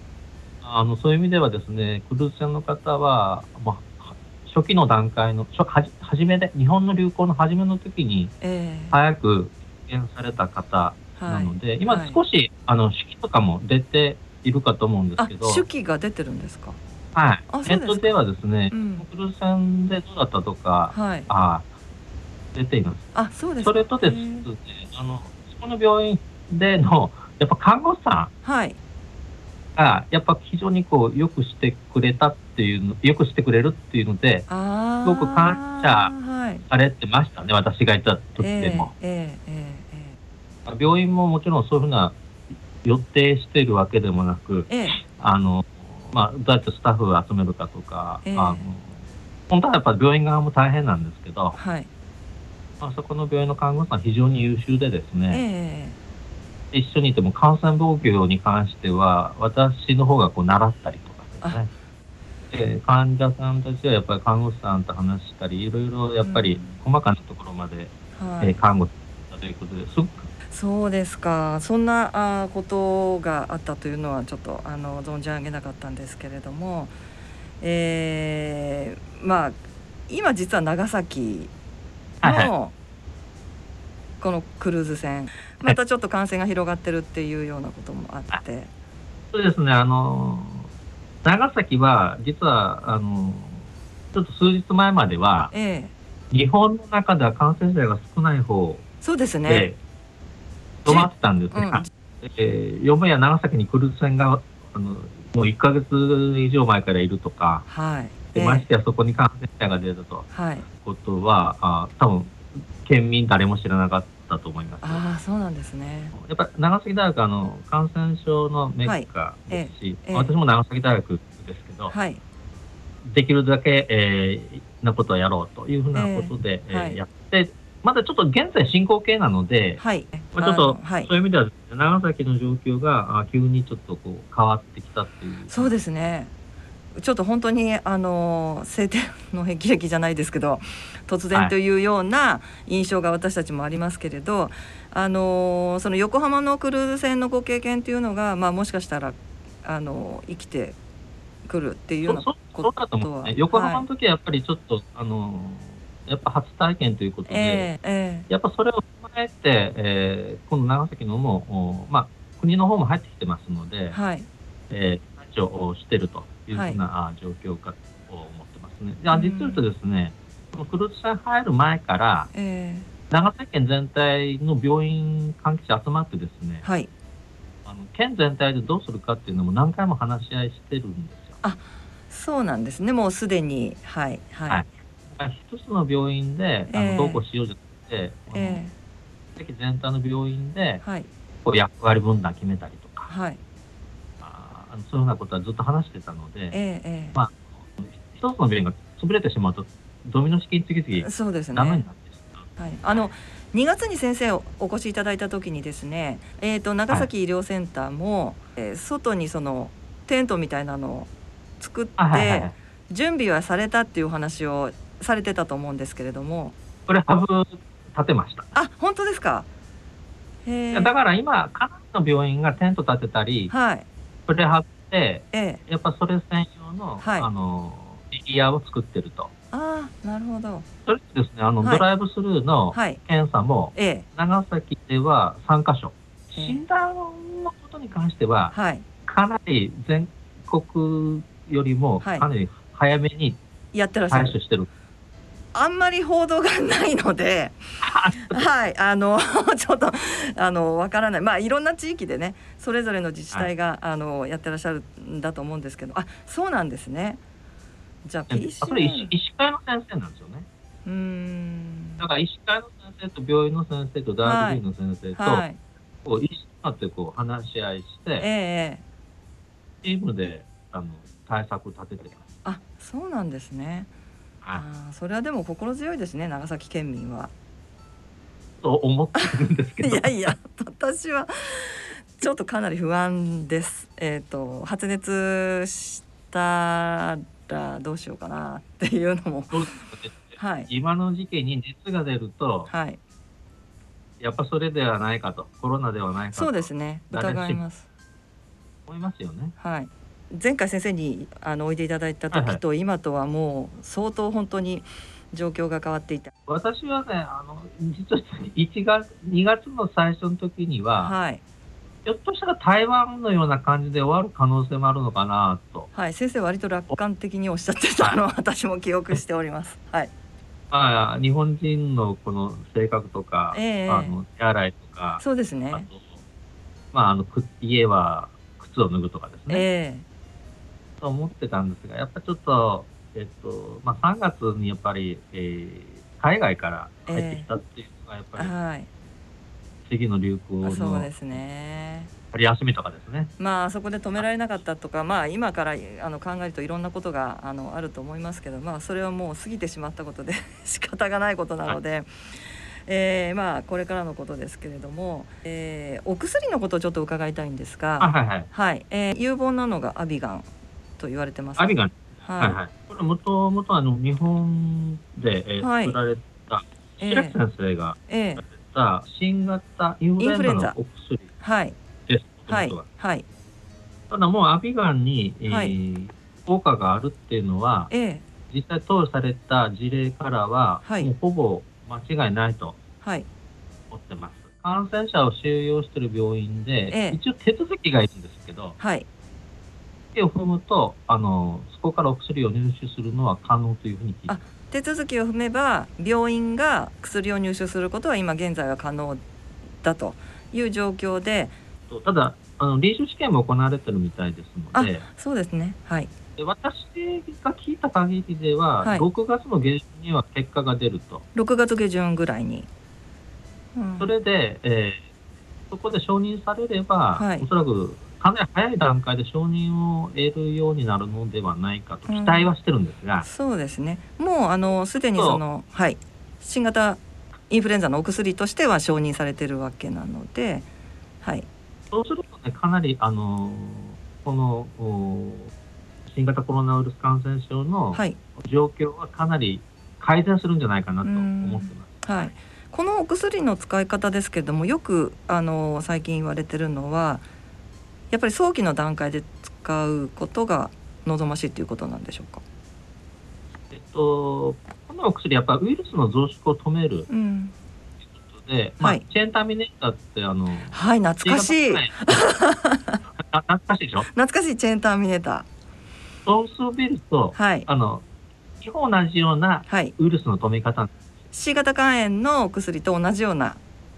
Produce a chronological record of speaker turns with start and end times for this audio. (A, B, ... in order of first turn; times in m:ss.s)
0:00.6-0:08.3 A
0:08.4-0:08.9 B
0:08.9-0:15.6 A
0:11.2-0:12.2 B
0:15.2-0:16.8 B
0:17.1-0:21.7 A
0:17.5-0:18.1 B
0:18.7-0:19.0 B
0:20.9-0:21.3 B
0:22.6-0:23.1 A
0:23.1-0:24.4 B
0:23.6-0:28.3 A
0:28.4-0:28.8 B
0:29.8-0:34.5 A
0:34.5-0:36.6 B
0:35.0-0:36.1 A
0:36.7-0:38.9 A
0:38.4-0:40.1 B
0:40.7-0:42.2 A
0:42.8-0:48.9 A
0:44.7-0:45.0 B
0:48.2-0:48.7 B
0:49.5-0:51.6 A
0:51.6-0:51.9 B
0:52.8-0:55.4 A
0:55.3-0:56.0 B
0:56.7-1:01.7 A
1:02.5-1:10.3 A
1:06.2-1:06.8 B
1:08.2-1:08.6 B
1:10.5-1:16.9 B
1:17.6-1:19.6 B
1:20.1-1:21.5 B
1:22.2-1:22.5 A
1:22.2-1:22.7 B
1:24.2-1:28.7 B
1:29.3-1:30.7 A
1:31.2-1:35.5 A
1:35.5-1:35.9 B
1:36.3-1:38.8 A
1:39.0-1:39.7 B
1:39.4-1:39.8 A
1:40.8-1:47.7 A
1:40.8-1:41.9 B
1:47.7-1:48.7 B
1:48.3-1:50.3 A
1:50.3-1:50.6 B
1:50.8-1:55.0 A
1:54.8-1:56.1 B
1:56.1-2:01.9 A
1:58.8-2:00.3 B
2:01.9-2:02.2 B
2:03.0-2:09.8 A
2:05.9-2:07.0 B
2:09.8-2:11.1 B
2:10.3-2:15.7 A
2:15.5-2:16.3 B
2:17.0-2:30.8 B
2:31.4-2:33.8 B
2:32.0-2:37.7 A
2:37.3-2:38.3 B
2:38.3-2:44.0 A
2:43.9-2:44.3 B
2:44.7-2:52.3 A
2:46.5-2:46.8 B
2:49.1-2:49.6 B
2:52.3-2:52.9 B
2:53.1-2:56.6 A
2:56.6-2:56.9 B
2:57.6-3:01.4 A
3:01.4-3:04.6 B
3:04.5-3:08.6 A
3:06.7-3:07.2 B
3:08.3-3:08.7 B
3:09.4-3:10.8 A
3:11.4-3:13.1 A
3:13.1-3:13.4 B
3:14.2-3:16.6 A
3:16.5-3:17.2 B
3:17.1-3:22.5 A
3:21.0-3:21.8 B
3:22.6-3:31.1 B
3:31.6-3:36.6 B
3:32.0-3:32.5 A
3:36.9-3:38.5 A
3:38.6-3:39.5 B
3:40.4-3:40.9 B
3:40.7-3:43.5 A
3:43.5-3:43.8 B
3:44.3-3:49.3 A
3:45.3-3:45.6 B
3:47.0-3:47.3 B
3:49.5-3:50.7 B
3:50.8-3:58.6 A
3:52.7-3:53.0 B
3:53.7-3:54.1 B
3:56.3-3:56.6 B
3:58.5-3:58.8 B
3:59.1-4:03.4 A
4:02.0-4:02.3 B
4:03.7-4:04.4 B
4:04.1-4:04.7 A
4:05.5-4:07.6 B
4:07.8-4:08.4 A
4:08.2-4:17.2 B
4:18.0-4:19.1 B
4:18.3-4:20.4 A
4:20.8-4:22.0 B
4:22.0-4:25.4 A
4:24.2-4:24.6 B
4:25.2-4:25.6 B
4:26.0-4:28.3 A
4:28.2-4:28.8 B
4:29.8-4:32.3 A
4:32.4-4:33.9 B
4:34.6-4:37.3 B
4:38.6-4:40.3 A
4:39.2-4:49.6 B
4:49.5-4:52.7 A
4:50.4-4:50.7 B
4:52.7-4:53.0 B
4:54.2-4:57.6 A
4:56.3-4:57.8 B
4:58.9-4:59.6 A
4:59.6-5:06.3 B
5:02.3-5:02.6 A
5:06.5-5:11.1 A
5:11.0-5:11.4 B
5:12.0-5:15.9 A
5:15.9-5:20.1 B
5:20.7-5:26.1 A
5:23.5-5:24.1 B
5:25.2-5:25.9 B
5:26.9-5:29.7 A
5:29.5-5:30.0 B
5:31.0-5:38.5 A
5:37.1-5:37.4 B
5:38.4-5:38.9 B
5:39.8-5:41.2 A
5:40.6-5:42.1 B
5:42.3-5:43.3 A
5:43.4-6:00.5 B
5:58.0-5:58.5 A
6:01.0-6:02.6 B
6:01.6-6:11.3 A
6:05.6-6:06.0 B
6:07.0-6:07.4 B
6:08.1-6:08.4 B
6:10.2-6:10.8 B
6:11.4-6:11.8 B
6:12.1-6:12.8 A
6:12.5-6:13.2 B
6:14.1-6:17.9 A
6:15.5-6:15.7 B
6:17.9-6:18.2 B
6:18.5-6:22.8 A
6:23.0-6:23.3 B
6:23.9-6:28.8 A
6:26.9-6:27.2 B
6:28.8-6:29.1 B
6:30.1-6:34.3 A
6:34.3-6:39.2 B
6:39.8-6:41.6 B
6:41.9-6:45.0 A
6:44.7-6:46.1 B
6:46.4-6:51.2 A
6:51.3-6:52.7 B
6:53.7-6:54.1 B
6:54.0-6:55.0 A
6:55.7-7:03.3 A
6:57.2-6:57.4 B
7:02.1-7:02.5 B
7:03.2-7:10.7 B
7:05.1-7:05.4 A
7:11.9-7:15.5 A
7:16.1-7:22.3 A
7:21.0-7:27.2 B
7:28.1-7:32.4 B
7:33.7-7:37.1 A
7:37.1-7:37.5 B
7:38.3-7:42.2 A
7:40.7-7:43.0 B
7:43.3-7:44.1 A
7:44.0-7:45.4 B
7:46.2-7:48.0 A
7:47.3-7:47.7 B
7:48.6-7:50.9 A
7:49.7-7:49.9 B
7:51.3-7:53.6 B